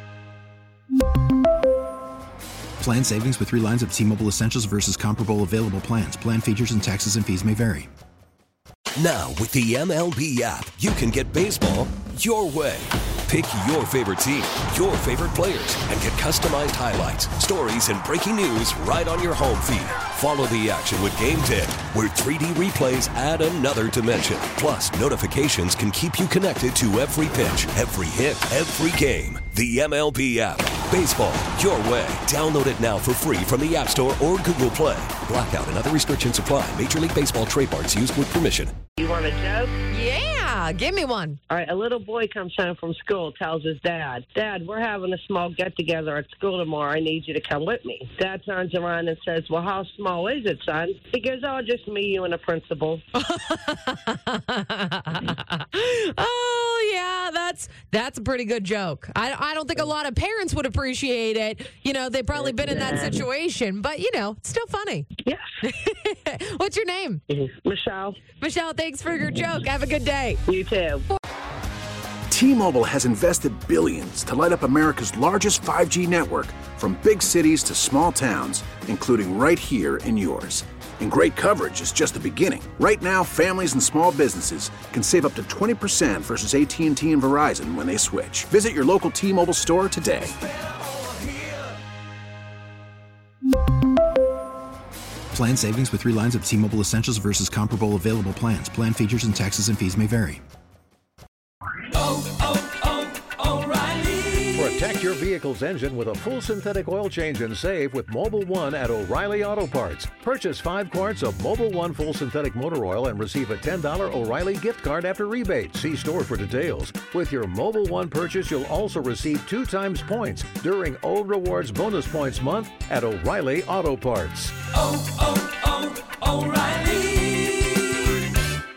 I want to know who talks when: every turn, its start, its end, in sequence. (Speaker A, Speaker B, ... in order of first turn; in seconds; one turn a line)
Speaker A: 2.8-7.9
Speaker B: 8.9-38.7
Speaker C: 39.0-39.7
Speaker D: 39.9-41.4
Speaker C: 41.5-53.0
Speaker D: 53.2-65.1
Speaker C: 62.3-63.2
Speaker D: 65.7-67.2
Speaker C: 67.3-68.2
Speaker D: 68.3-70.4
Speaker C: 70.5-71.0
Speaker E: 72.3-90.3
Speaker A: 95.3-100.4
Speaker B: 102.3-102.7
Speaker B: 103.5-104.1
Speaker F: 104.5-124.6
Speaker B: 124.9-127.3